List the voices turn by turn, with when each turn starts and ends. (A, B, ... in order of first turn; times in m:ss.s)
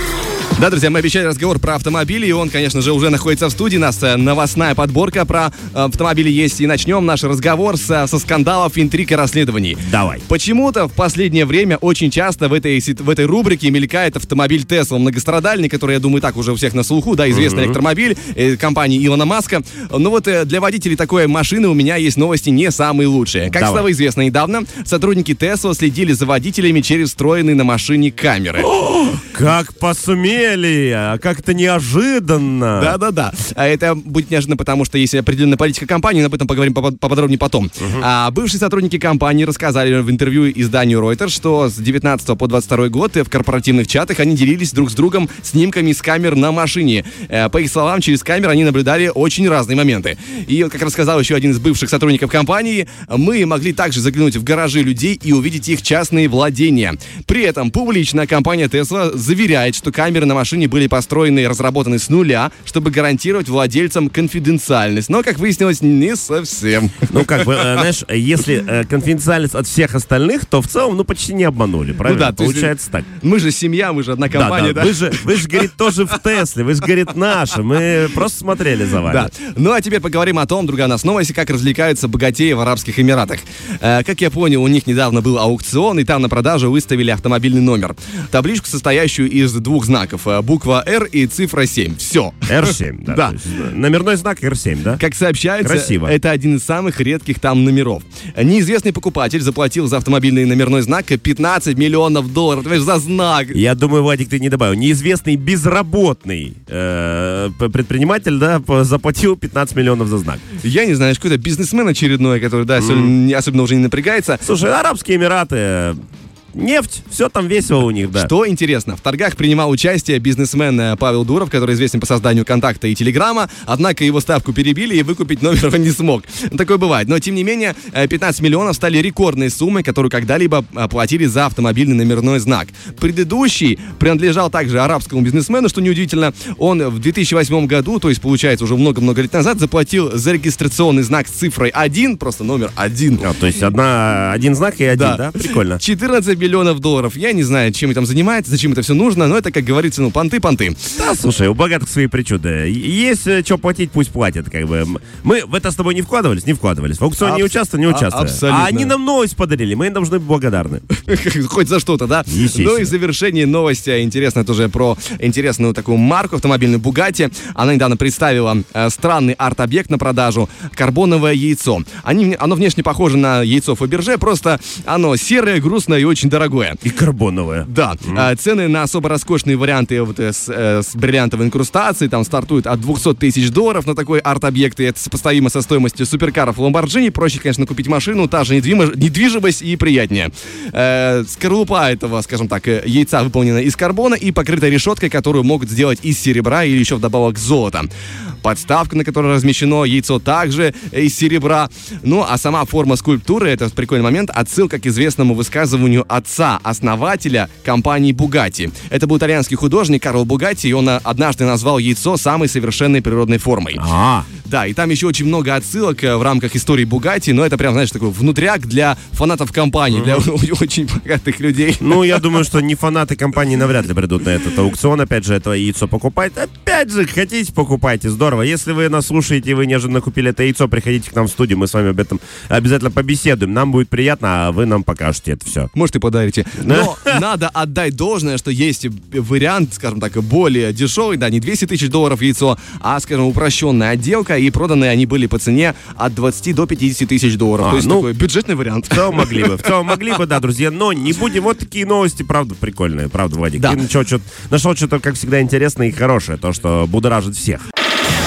0:00.5-0:28.7 A
0:09.8-0:10.2 B
0:17.3-0:17.8 B
0:23.5-0:23.8 B
0:28.7-0:33.0 B
0:32.8-1:07.7 A
1:07.1-1:13.1 B
1:12.0-1:16.2 A
1:14.3-1:19.3 B
1:19.0-1:33.4 A
1:32.5-1:35.0 B
1:35.0-1:43.6 A
1:35.6-1:36.1 B
1:43.5-1:50.4 B
1:50.6-1:54.4 A
1:52.8-1:53.1 B
1:54.4-1:56.0 B
1:56.5-1:58.3 B
1:58.1-2:23.3 A
2:23.2-2:25.8 B
2:24.9-2:30.9 A
2:31.0-2:40.8 B
2:37.2-2:38.9 A
2:40.9-2:56.8 A
2:42.3-2:42.9 B
2:56.8-2:58.3 B
2:57.6-3:17.9 A
3:18.4-3:33.8 A
3:33.8-3:34.3 B
3:34.4-3:42.2 A
3:39.9-3:40.2 B
3:41.8-3:55.7 B
3:55.7-4:10.0 A
3:56.6-3:57.2 B
4:07.6-4:08.1 B
4:08.9-4:17.6 B